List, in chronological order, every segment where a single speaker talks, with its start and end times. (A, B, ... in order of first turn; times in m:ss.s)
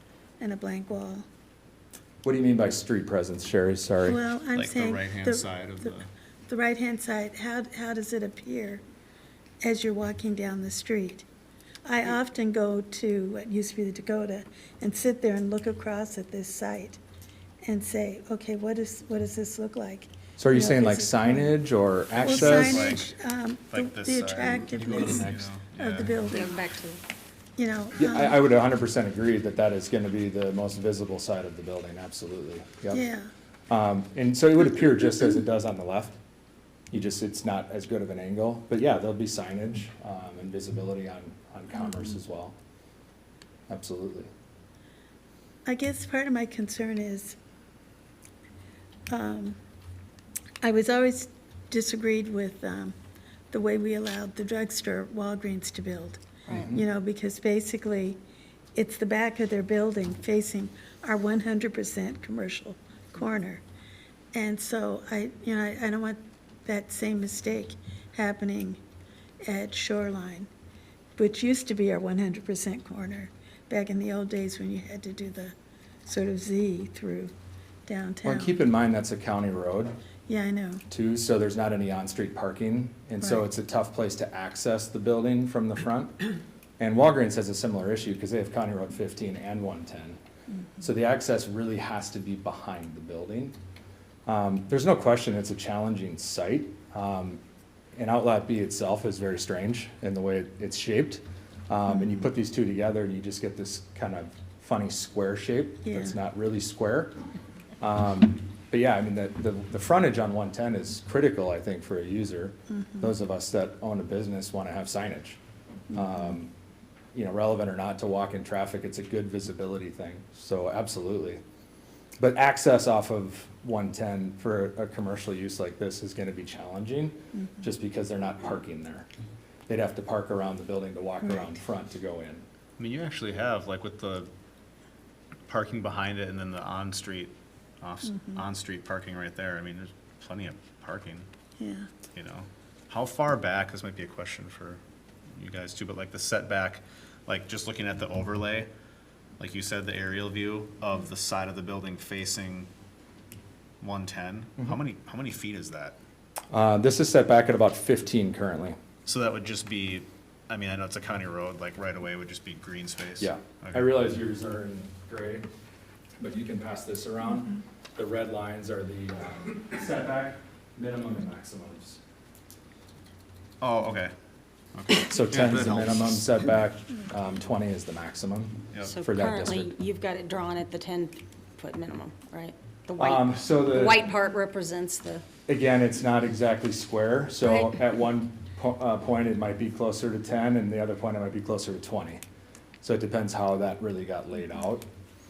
0:00.4-0:01.2 A
0:02.2-0:04.2 B
0:04.0-0:05.9 A
0:04.5-0:06.1 C
0:06.5-0:08.8 A
0:09.6-0:11.3 A
0:11.8-0:17.0 A
0:17.6-0:21.5 A
0:20.4-0:23.0 B
0:22.1-0:26.6 A
0:22.2-0:23.1 C
0:23.7-0:26.3 C
0:24.7-0:25.2 B
0:26.3-0:27.0 D
0:27.6-0:28.4 A
0:28.0-0:33.0 B
0:32.9-0:33.3 A
0:33.7-0:36.2 B
0:36.9-0:42.6 B
0:43.7-0:44.3 B
0:45.7-0:47.4 A
0:49.1-0:49.6 A
0:50.6-0:53.0 A
0:53.5-0:58.2 A
0:56.5-0:56.7 D
0:56.5-0:56.8 B
0:58.7-1:03.6 A
1:04.3-1:08.8 A
1:09.4-1:10.5 A
1:11.2-1:17.3 A
1:17.8-1:18.6 A
1:18.2-1:19.9 B
1:20.3-1:20.8 A
1:20.9-1:26.2 B
1:26.8-1:30.2 B
1:30.8-1:33.6 B
1:34.2-1:37.4 B
1:37.9-1:47.2 B
1:45.8-1:46.2 A
1:47.8-1:55.4 B
1:52.7-1:53.1 A
1:55.9-1:56.5 B
1:57.1-2:01.4 B
2:02.2-2:09.1 B
2:07.3-2:07.6 A
2:09.7-2:12.4 B
2:11.2-2:11.5 A
2:12.8-2:14.3 C
2:15.5-2:21.3 C
2:18.1-2:18.4 A
2:21.6-2:21.9 A
2:22.1-2:24.8 C
2:25.4-2:28.7 C
2:29.4-2:32.7 C
2:33.8-2:36.0 C
2:36.5-2:38.8 B
2:39.1-2:43.9 C
2:43.2-2:45.4 B
2:46.2-2:52.0 B
2:53.6-2:54.1 C
2:54.8-2:56.3 C
2:55.1-2:59.7 B
2:58.9-3:05.2 D
3:03.0-3:04.1 B
3:05.5-3:12.2 B
3:07.4-3:07.8 D
3:12.8-3:14.8 B